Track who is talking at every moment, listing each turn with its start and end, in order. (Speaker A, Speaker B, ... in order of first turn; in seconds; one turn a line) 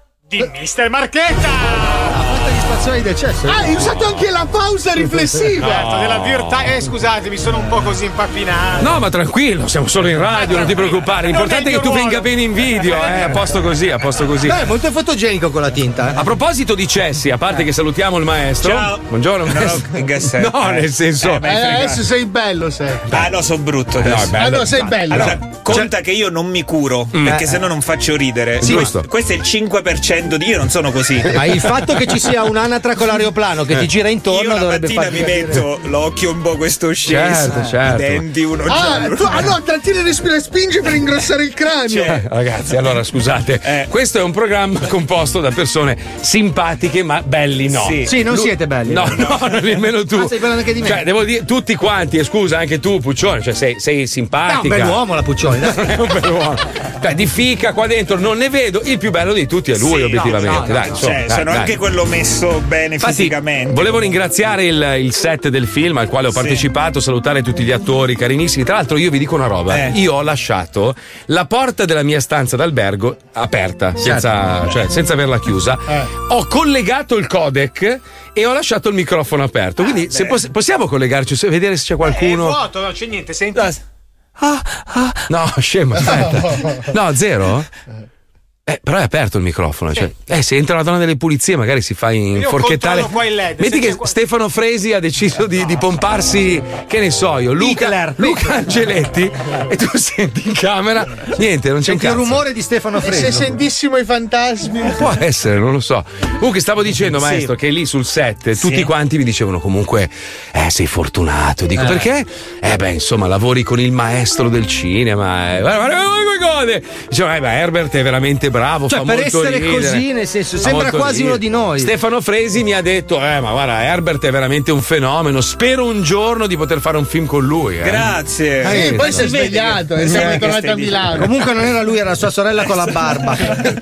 Speaker A: 0.3-2.2
Speaker B: 2.1-3.8
Speaker C: 3.5-5.8
Speaker D: 5.6-6.8
Speaker A: 5.6-9.0
Speaker D: 8.8-14.6
Speaker A: 10.3-13.4
Speaker B: 14.4-16.2
Speaker D: 16.1-22.0
Speaker E: 18.6-22.0
Speaker C: 21.4-23.2
Speaker E: 23.1-24.4
Speaker D: 24.0-25.4
Speaker C: 24.4-25.3
Speaker E: 25.1-31.4
Speaker D: 28.6-29.1
Speaker B: 31.3-35.6
Speaker E: 34.3-39.5
Speaker D: 37.1-38.2
Speaker C: 38.7-42.1
Speaker E: 41.9-42.2
Speaker D: 42.0-55.0
Speaker E: 47.7-48.1
Speaker B: 48.0-49.3
Speaker B: 50.1-51.1
Speaker B: 54.4-56.0
Speaker D: 55.6-61.8
Speaker E: 59.7-64.0
Speaker B: 60.4-60.9
Speaker D: 63.0-82.6
Speaker E: 66.3-66.6
Speaker E: 69.7-70.0
Speaker B: 74.0-74.3
Speaker E: 80.1-80.4
Speaker A: 82.0-83.8
Speaker D: 85.3-87.7
Speaker C: 86.1-86.5
Speaker D: 88.7-102.4
Speaker A: 92.3-94.2
Speaker B: 97.6-98.6
Speaker B: 101.8-103.5
Speaker C: 103.0-105.1
Speaker D: 104.9-120.1
Speaker E: 107.2-107.5
Speaker E: 108.6-108.9
Speaker B: 111.8-112.1
Speaker B: 118.9-121.9
Speaker D: 120.6-129.3
Speaker E: 127.8-131.2
Speaker B: 128.7-129.1
Speaker C: 128.7-131.3
Speaker D: 130.1-130.4
Speaker B: 131.1-133.6